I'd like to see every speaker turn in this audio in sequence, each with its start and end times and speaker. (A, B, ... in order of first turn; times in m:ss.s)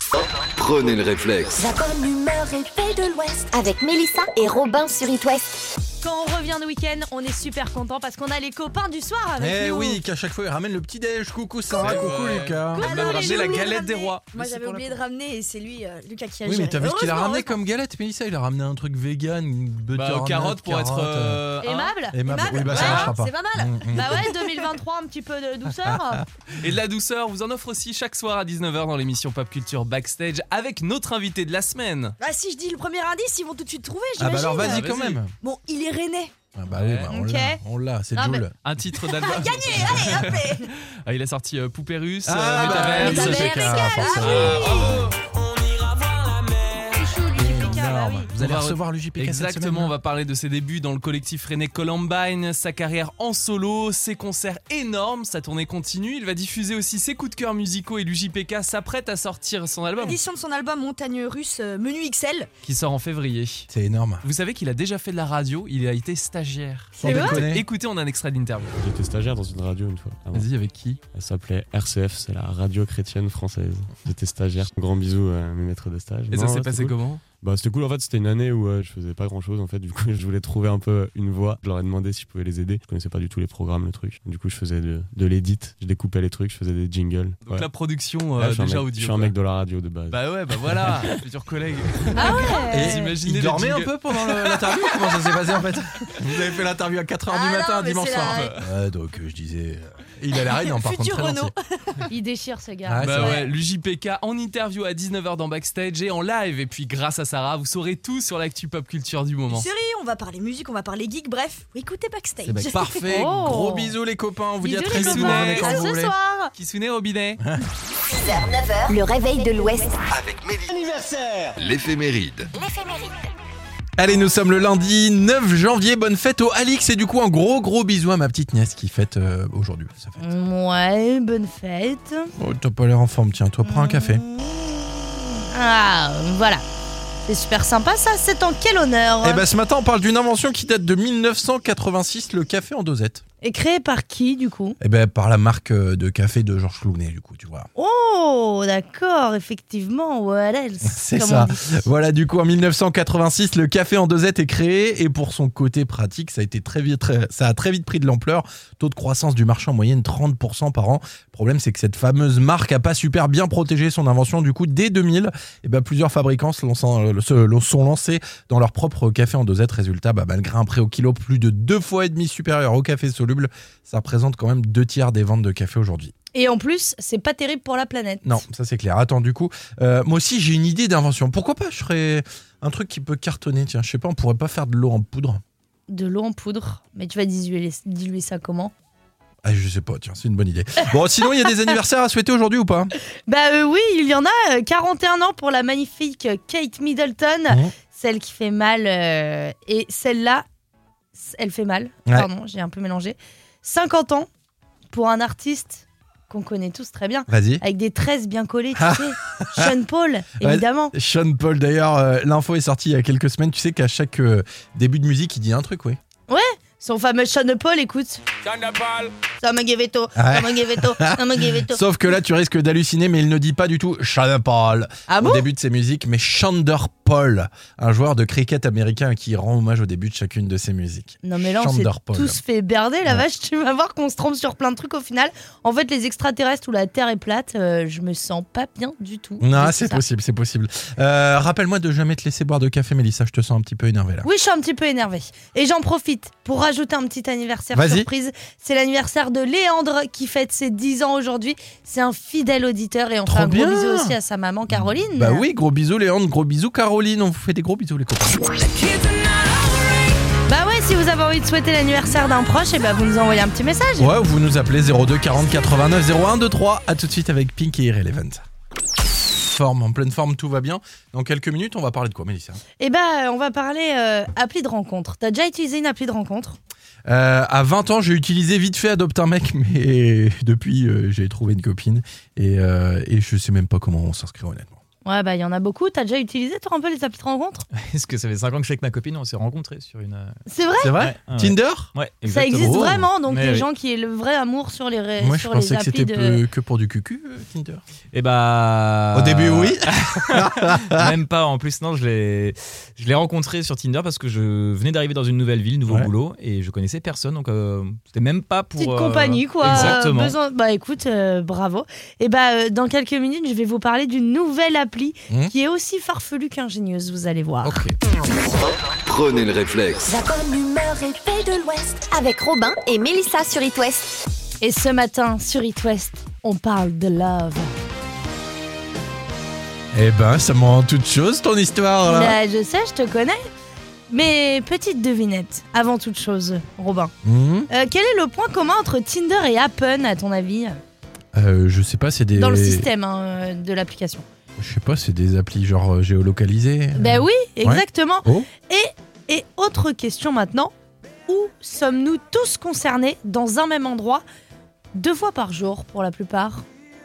0:00.2-0:01.6 A
0:01.6-0:05.6 B
0:06.0-0:10.0 C
0:09.4-0:12.9 D
0:11.7-0:15.0 E
0:12.8-0:13.7 C
0:12.8-0:17.6 F
0:16.4-0:21.4 D
0:20.0-0:22.0 E
0:21.6-0:23.1 C
0:22.1-0:24.2 D
0:22.3-0:24.4 F
0:22.7-0:23.1 E
0:23.9-0:26.2 C
0:26.5-0:32.2 E
0:32.2-0:34.9 F
0:34.2-0:35.3 D
0:34.6-0:35.2 E
0:35.4-0:36.3 F
0:36.6-0:38.5 D
0:36.7-0:37.1 E
0:37.1-0:37.6 C
0:38.2-0:38.4 C
0:38.6-0:46.8 E
0:39.1-0:40.7 F
0:42.2-0:44.9 D
0:42.6-0:45.0 C
0:42.7-0:44.8 F
0:46.9-0:48.3 C
0:47.4-0:49.9 D
0:48.4-1:00.2 E
1:00.0-1:02.5 F
1:02.6-1:03.7 E
1:03.7-1:04.2 D
1:04.2-1:08.7 E
1:07.0-1:07.6 D
1:07.0-1:07.4 C
1:08.8-1:10.5 G
1:10.3-1:11.0 D
1:11.1-1:27.7 G
1:16.3-1:17.2 E
1:27.4-1:29.3 E
1:28.4-1:30.2 G
1:30.1-1:35.2 E
1:32.2-1:33.1 C
1:32.7-1:41.5 D
1:37.8-1:38.1 C
1:37.9-1:38.2 F
1:38.2-1:38.6 E
1:40.3-1:42.0 F
1:42.1-1:43.4 C
1:42.8-1:43.4 D
1:43.0-1:49.7 E
1:49.5-1:53.0 F
1:52.4-1:56.1 D
1:53.0-1:53.9 C
1:54.6-1:56.2 C
1:54.9-1:55.8 E
1:55.6-1:56.5 F
1:56.6-1:57.4 E
1:58.2-2:00.0 B
2:00.1-2:02.5 A
2:02.6-2:03.2 B
2:04.0-2:10.3 D
2:10.2-2:12.3 C
2:12.4-2:14.2 D
2:13.6-2:16.6 C
2:17.3-2:19.4 C
2:19.2-2:23.2 D
2:23.4-2:24.8 C
2:24.8-2:27.7 D
2:27.8-2:31.8 C
2:30.8-2:56.1 D
2:56.3-2:58.4 C
2:58.2-3:05.4 D
3:05.9-3:08.7 C
3:09.4-3:12.9 D
3:13.3-3:20.4 C
3:21.1-3:24.3 C
3:24.9-3:30.9 C
3:27.3-3:27.6 D
3:28.8-3:29.7 D
3:30.4-3:36.0 D
3:36.3-3:38.2 C
3:38.5-3:39.1 E
3:39.4-3:41.8 C
3:40.2-3:52.4 D
3:45.1-3:45.5 C
3:51.2-4:00.0 C
3:59.4-4:04.3 D
4:04.2-4:15.5 C
4:07.7-4:08.1 D
4:13.3-4:14.2 D
4:14.7-4:18.5 D
4:20.5-4:24.1 C
4:24.0-4:28.4 D
4:29.3-4:32.6 D
4:32.8-4:36.6 C
4:37.1-4:44.8 D
4:45.0-4:47.7 C
4:47.7-4:50.4 H
4:50.5-4:51.0 C
4:50.8-4:51.9 D
4:50.9-4:53.7 H
4:52.3-4:56.4 C
4:52.6-4:53.0 D
4:55.2-4:57.8 D
4:58.1-5:10.4 H
4:59.1-5:01.1 D
5:08.8-5:17.8 C
5:09.6-5:10.0 D
5:15.3-5:15.5 D
5:17.6-5:18.0 D
5:18.5-5:20.1 A
5:20.1-5:24.2 B
5:24.6-5:27.7 C
5:29.9-5:32.4 D
5:32.0-5:33.5 C
5:34.1-5:37.1 C
5:37.2-5:37.7 D
5:37.7-5:40.8 C
5:41.3-5:42.9 D
5:42.4-5:44.3 C
5:44.6-5:48.5 D
5:47.0-5:50.7 C
5:51.3-5:54.2 C
5:54.9-5:56.6 C